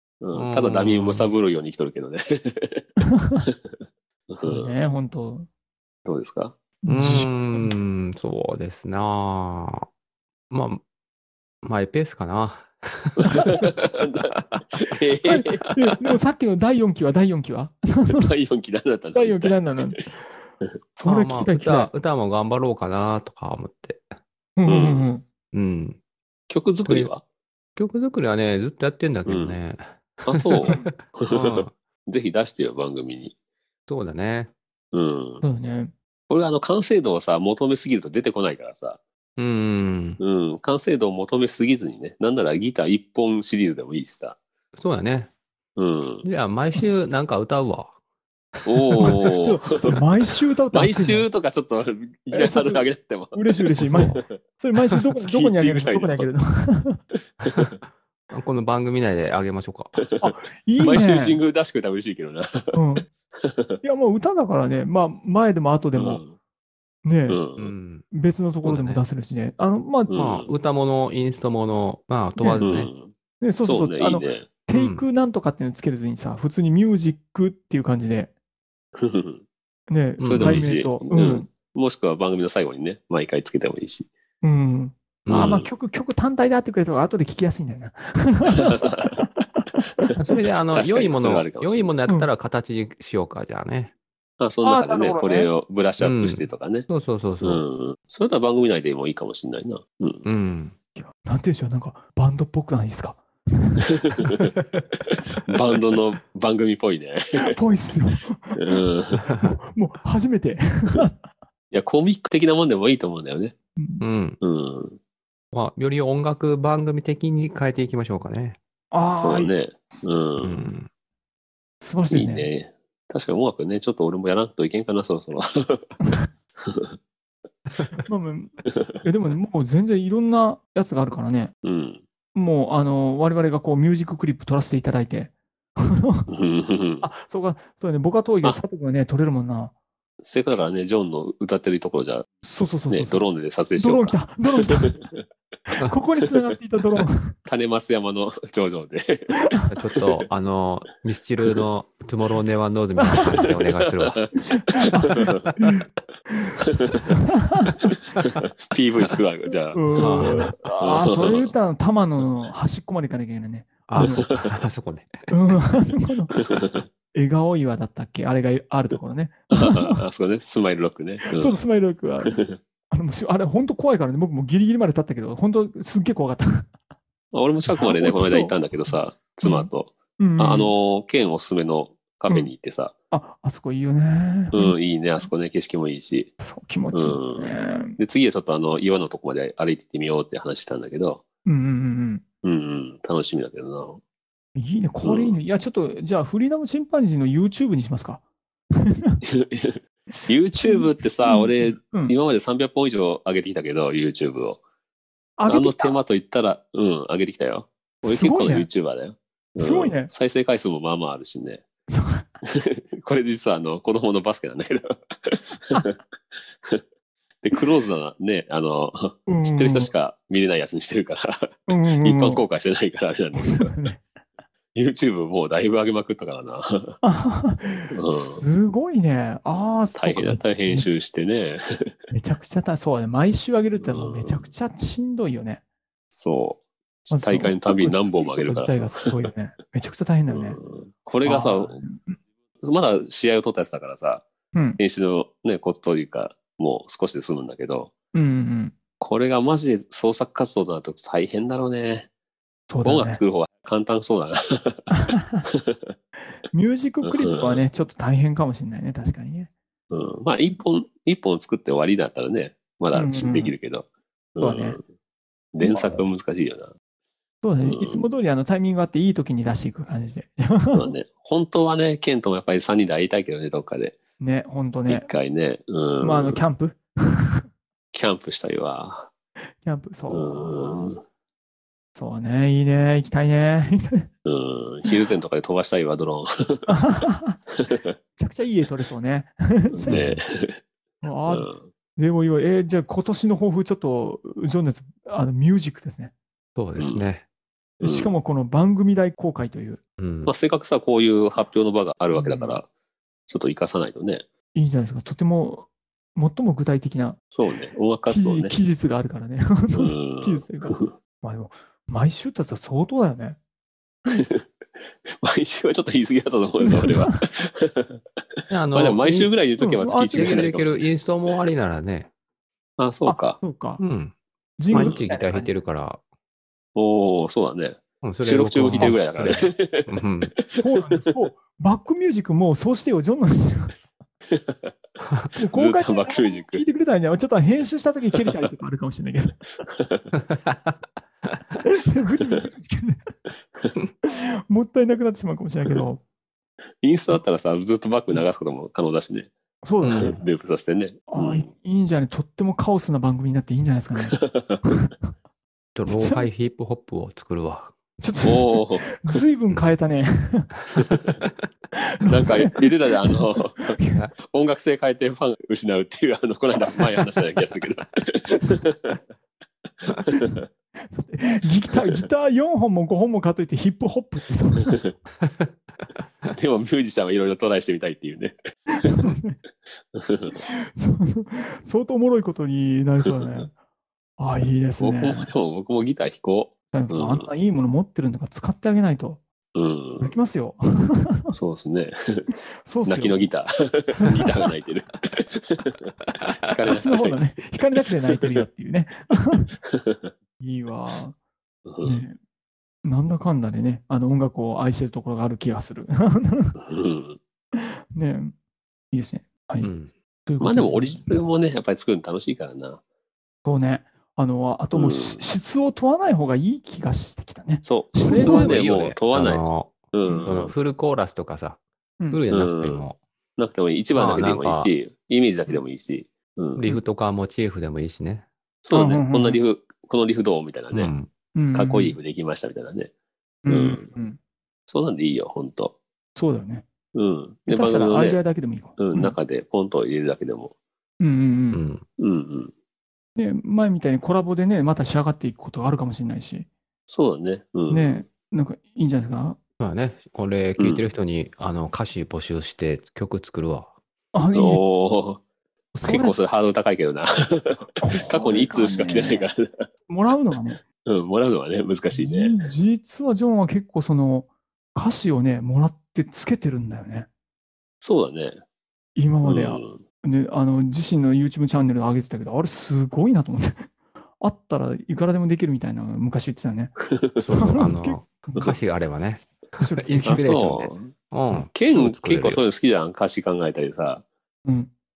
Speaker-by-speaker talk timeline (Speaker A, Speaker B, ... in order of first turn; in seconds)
Speaker A: 0.2-2.9, 4.3-4.7, 6.0-6.6, 13.3-15.8, 18.1-20.0, 24.7-25.1, 26.5-27.2, 29.3-29.6, 30.2-33.3, 34.9-35.4, 36.3-39.0, 40.2-44.4, 45.8-46.3, 48.7-50.0, 50.7-54.4, 55.2-56.3, 57.4-57.7, 60.0-62.8, 63.4-63.8, 66.0-66.3, 67.3-67.7, 70.1-70.5, 72.6-74.5, 79.0-79.4, 80.2-84.1, 85.3-85.7, 88.5-89.2, 90.7-92.0, 94.4-96.9, 97.4-100.2, 104.0-104.5, 105.1-107.6, 108.6-109.2, 111.7-113.5, 114.4-115.0, 119.2-120.7, 122.1-126.0, 126.6-127.0, 131.6-132.0, 136.3-137.1, 140.2-142.3, 142.9-145.2, 147.5-149.6, 153.3-154.3, 155.2-155.5, 156.7-157.0, 158.7-161.5, 164.0-164.6, 166.5-166.9, 169.5-171.6, 172.2-172.6, 177.3-182.9, 184.5-186.3, 186.9-191.2, 192.4-194.0, 195.0-195.4, 199.2-204.6, 205.5-211.6, 212.4-216.0, 217.4-223.8, 224.7-227.0, 227.9-228.4, 229.9-231.9, 233.8-234.5, 236.1-239.3, 240.3-241.8, 242.6-244.2, 244.8-247.9, 249.0-252.1, 252.8-255.9, 257.0-257.6, 259.9-264.8, 265.5-266.7, 267.6-268.1, 270.7-274.0, 274.9-276.4, 277.9-279.1, 280.1-281.0, 284.3-286.8, 287.6-287.9, 289.7-290.6, 291.3-291.7, 296.8-297.1, 297.8-298.1, 300.3-302.7, 303.3-304.2, 307.3-308.6, 309.7-310.9, 314.1-314.5, 315.1-318.0, 318.7-320.9, 322.8-323.4, 324.7-325.0, 326.8-331.0, 334.3-334.7, 335.5-336.6, 339.8-340.1, 346.8-349.3, 349.9-351.5, 354.1-354.6, 358.2-359.0, 360.8-361.2, 362.1-369.0, 369.9-370.5, 376.3-379.1, 379.9-380.4, 383.1-383.5, 384.8-387.3, 389.6-390.1, 391.3-392.3, 392.9-397.2, 399.7-400.1, 401.7-402.0, 406.6-407.2, 410.4-412.8, 414.7-415.2, 417.6-420.5, 422.3-422.9, 423.4-426.6, 428.6-430.9, 431.5-432.9, 433.5-433.9, 434.7-435.7, 436.9-438.2, 438.8-440.5, 442.0-442.5, 446.9-448.0, 450.6-450.9, 454.4-455.2, 455.8-459.7, 460.8-462.4, 467.8-468.4, 469.2-469.8, 476.9-477.2, 480.1-480.9, 481.5-484.0
Speaker B: 0.3-1.3, 6.9-9.9, 10.5-10.8, 11.6-13.7, 21.0-24.0, 25.5-26.0, 26.9-27.1, 27.8-31.7, 33.9-34.5, 39.4-40.2, 44.8-45.3, 46.2-47.9, 48.6-49.0, 57.4-57.7, 58.3-60.0, 67.6-68.1, 68.6-69.0, 70.1-72.9, 74.7-75.0, 80.2-80.7, 85.2-85.6, 90.2-93.9, 96.0-97.6, 100.2-100.8, 114.0-114.4, 115.5-118.6, 120.4-120.9, 149.7-154.2, 160.0-160.5, 163.9-165.3, 289.9-290.2, 296.6-297.2, 300.0-300.3, 318.5-319.3, 320.1-322.1, 323.8-324.1, 324.7-326.0, 328.0-330.3, 340.3-340.8, 349.8-350.2, 355.8-357.7, 375.2-375.5, 409.6-409.9, 418.1-421.6, 422.1-423.0, 423.9-424.7, 426.6-428.3, 430.7-431.1, 441.5-441.9, 449.6-453.7, 477.2-482.4
Speaker C: 4.4-5.5, 6.8-7.7, 15.2-18.2, 19.1-20.1, 21.0-21.9, 24.6-25.2, 35.4-35.9, 49.0-51.3, 52.3-57.0, 60.2-61.4, 62.7-63.1, 63.8-66.2, 67.0-67.4, 68.1-70.1, 72.4-72.8, 73.4-78.3, 79.9-81.5, 84.4-89.4, 94.6-95.5, 101.0-104.3, 107.3-108.8, 109.4-111.2, 113.8-114.0, 118.9-120.0, 121.8-122.5, 128.1-131.5, 132.3-136.3, 137.0-139.7, 142.4-143.3, 143.8-144.9, 145.7-147.3, 154.6-155.8, 156.3-157.9, 159.7-164.3, 165.3-166.3, 167.1-170.0, 171.3-176.7, 177.7-178.6, 179.4-180.7, 183.1-185.3, 186.4-188.0, 191.5-192.2, 194.6-198.2, 198.7-199.2, 200.6-202.1, 205.4-206.0, 208.0-208.7, 209.6-210.1, 211.9-212.3, 219.3-219.9, 221.7-222.4, 223.4-224.0, 227.0-230.9, 232.1-235.6, 237.1-240.6, 241.2-242.2, 244.5-244.8, 248.1-248.7, 252.7-253.2, 255.0-255.4, 256.5-259.5, 262.9-263.5, 264.4-264.8, 265.6-266.0, 267.4-270.9, 274.2-275.1, 276.0-277.4, 279.6-281.0, 281.9-284.1, 286.7-287.4, 288.2-290.0, 291.0-296.1, 297.8-299.8, 302.1-302.6, 304.6-307.2, 308.1-313.4, 316.6-317.2, 319.6-320.5, 323.1-323.8, 324.6-325.5, 330.6-333.8, 335.3-339.4, 341.6-343.0, 344.0-346.0, 349.6-350.2, 351.1-354.9, 355.9-356.3, 358.0-360.5, 361.8-363.2, 370.9-374.8, 378.8-379.4, 380.4-383.5, 384.2-385.3, 386.7-389.2, 390.0-391.3, 392.6-393.3, 393.9-394.3, 396.6-399.5, 400.4-401.1, 401.8-402.2, 402.9-406.6, 407.5-408.3, 408.9-409.7, 410.3-411.2, 413.4-418.6, 428.7-429.4, 431.4-432.0, 433.4-434.2, 436.2-436.7, 437.5-439.2, 441.0-441.6, 443.2-446.5, 447.7-449.4, 454.1-454.6, 455.8-456.1, 457.8-459.3, 459.9-460.6, 461.9-467.1, 469.0-473.7, 474.2-476.7, 477.4-478.5, 479.6-480.3